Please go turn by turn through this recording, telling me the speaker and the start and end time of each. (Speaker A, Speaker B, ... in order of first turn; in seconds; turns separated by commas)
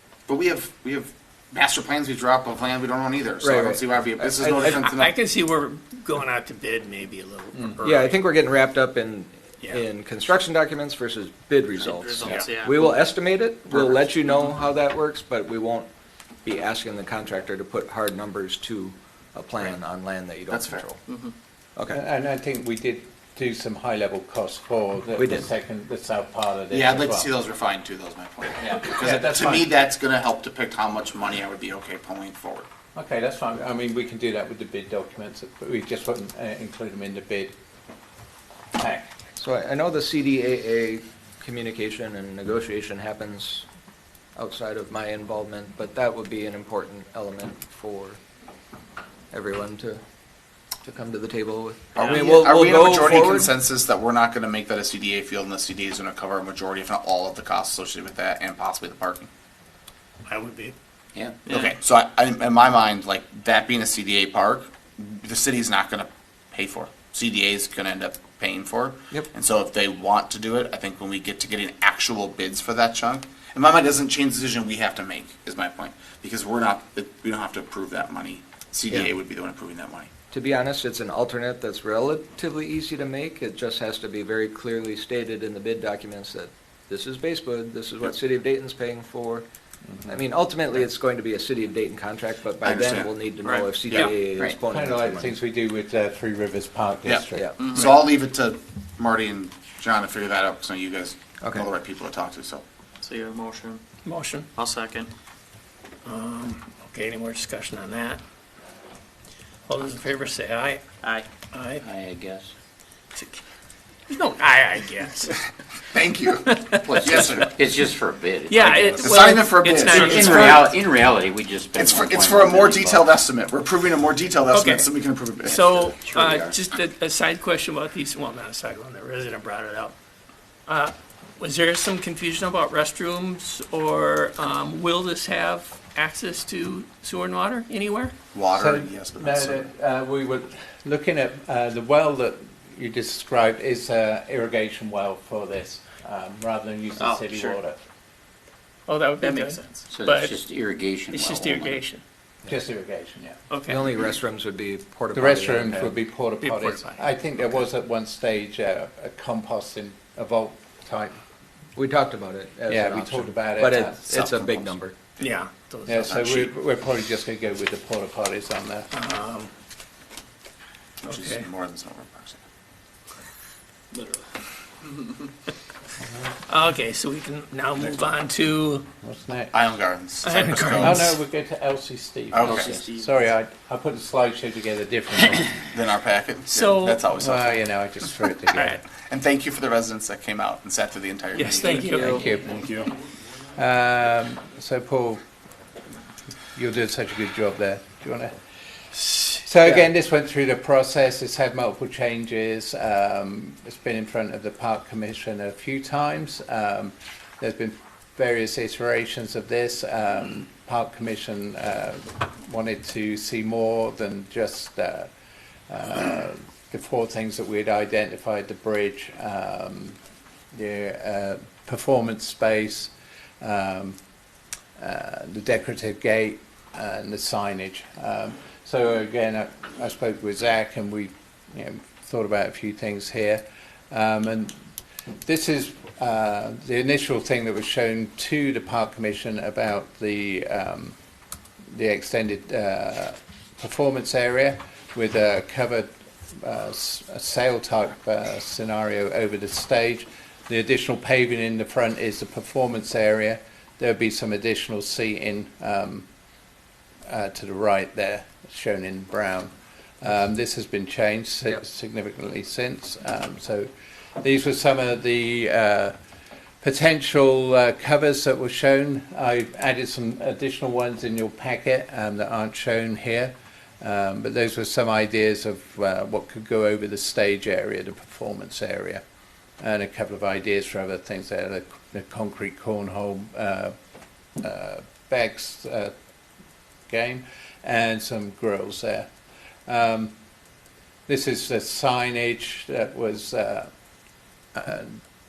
Speaker A: 0.3-5.1, Speaker B: 3.4-4.9, Speaker C: 4.6-8.2, Speaker B: 7.8-15.9, Speaker D: 11.8-12.9, Speaker B: 16.4-21.0, Speaker A: 20.5-20.9, Speaker D: 21.1-21.3, Speaker E: 21.9-27.3, Speaker B: 25.2-25.5, Speaker A: 26.7-32.7, Speaker E: 28.6-29.7, Speaker E: 33.0-37.5, Speaker E: 38.8-39.1, Speaker B: 39.4-43.7, Speaker B: 44.4-48.2, Speaker B: 49.3-50.0, Speaker B: 50.8-53.5, Speaker A: 52.0-59.3, Speaker C: 60.3-60.8, Speaker A: 61.5-80.1, Speaker B: 80.3-89.5, Speaker B: 90.1-95.3, Speaker A: 92.6-93.2, Speaker D: 93.4-93.8, Speaker E: 94.6-98.0, Speaker A: 97.0-102.7, Speaker B: 97.3-97.7, Speaker D: 97.6-97.9, Speaker B: 101.4-101.7, Speaker D: 103.0-103.8, Speaker C: 104.0-104.5, Speaker D: 104.5-105.1, Speaker C: 106.0-108.2, Speaker C: 109.7-110.8, Speaker C: 111.5-111.8, Speaker F: 111.8-112.5, Speaker C: 113.2-113.4, Speaker C: 114.1-115.4, Speaker A: 115.9-117.5, Speaker C: 116.2-117.5, Speaker F: 117.0-119.0, Speaker C: 118.5-120.7, Speaker A: 119.0-120.7, Speaker F: 119.9-123.1, Speaker A: 121.8-126.0, Speaker C: 124.5-124.9, Speaker C: 125.4-129.9, Speaker F: 126.1-126.5, Speaker C: 130.7-138.1, Speaker A: 138.3-139.7, Speaker E: 138.5-147.8, Speaker D: 147.0-147.6, Speaker C: 148.9-150.3, Speaker D: 149.2-149.9, Speaker F: 149.9-151.8, Speaker C: 151.1-152.0, Speaker E: 152.5-153.4, Speaker C: 153.5-153.8, Speaker B: 153.7-156.0, Speaker E: 155.1-161.2, Speaker C: 156.4-157.0, Speaker B: 161.8-165.0, Speaker E: 162.7-164.1, Speaker A: 164.1-165.4, Speaker C: 165.2-166.2, Speaker E: 165.8-168.9, Speaker A: 166.1-166.5, Speaker C: 168.9-169.5, Speaker A: 171.0-172.4, Speaker C: 171.1-171.5, Speaker D: 173.9-174.2, Speaker C: 176.5-178.9, Speaker E: 179.0-179.5, Speaker A: 179.5-181.2, Speaker C: 180.2-181.2, Speaker E: 180.8-185.5, Speaker A: 182.3-182.8, Speaker D: 182.6-183.1, Speaker A: 185.7-187.6, Speaker C: 186.5-187.0, Speaker E: 187.1-188.8, Speaker C: 188.5-188.8, Speaker A: 189.0-192.0, Speaker C: 191.3-192.3, Speaker D: 191.7-192.2, Speaker E: 191.9-192.9, Speaker E: 193.6-195.2, Speaker E: 196.6-198.3, Speaker E: 199.4-215.1, Speaker E: 215.7-220.0, Speaker E: 220.5-224.0, Speaker E: 224.8-234.6, Speaker E: 235.2-241.0, Speaker E: 241.7-256.1, Speaker E: 257.1-263.7, Speaker E: 264.2-265.9, Speaker E: 266.6-279.0, Speaker E: 279.6-283.8, Speaker E: 284.4-285.9, Speaker E: 286.9-289.1, Speaker E: 289.7-290.1, Speaker E: 291.1-293.7, Speaker E: 294.5-295.0